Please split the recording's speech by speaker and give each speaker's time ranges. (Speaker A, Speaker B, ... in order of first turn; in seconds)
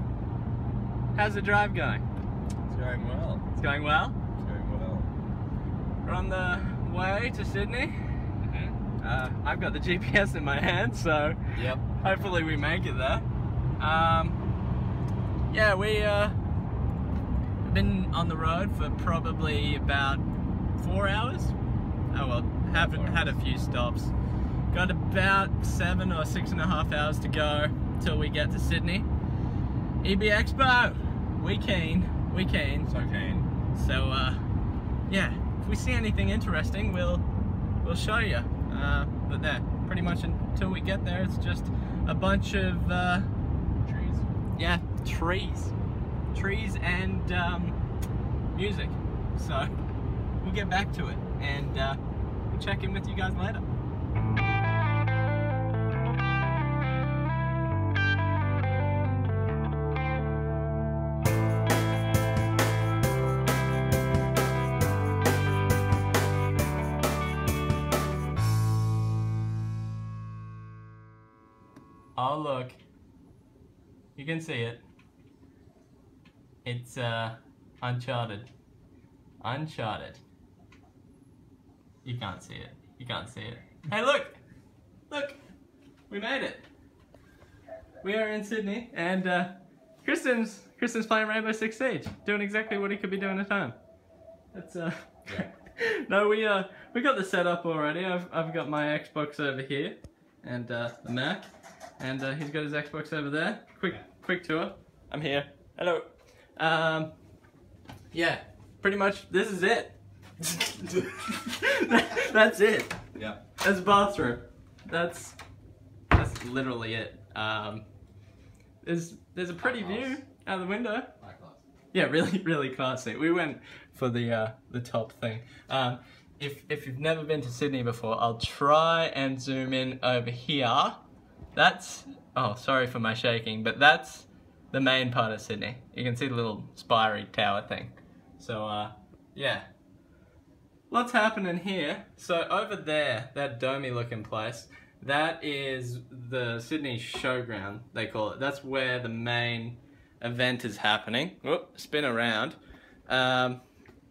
Speaker A: 1.1-2.0, 3.5-4.2, 6.0-8.2, 9.0-11.4, 11.9-13.3, 13.8-14.4, 15.5-16.4, 17.6-20.2, 20.8-21.6, 22.1-24.1, 24.7-29.1, 30.0-32.9, 33.7-34.5, 35.1-37.3, 37.8-43.3, 44.6-45.8, 46.3-47.8, 48.5-49.7, 50.4-53.6, 72.2-72.8, 74.2-74.8, 76.6-78.5, 79.4-80.2, 82.0-84.4, 85.1-85.4, 86.1-86.7, 88.0-93.8, 94.5-101.5, 102.0-107.1, 108.1-113.0, 113.6-115.4, 116.1-117.8, 118.8-121.1, 121.9-139.7, 140.9-152.6, 153.1-153.6
Speaker B: 2.7-3.4, 4.4-5.1, 8.4-8.8, 11.5-11.9, 22.6-23.4, 32.9-33.5, 43.8-44.3, 119.6-120.2, 121.2-121.6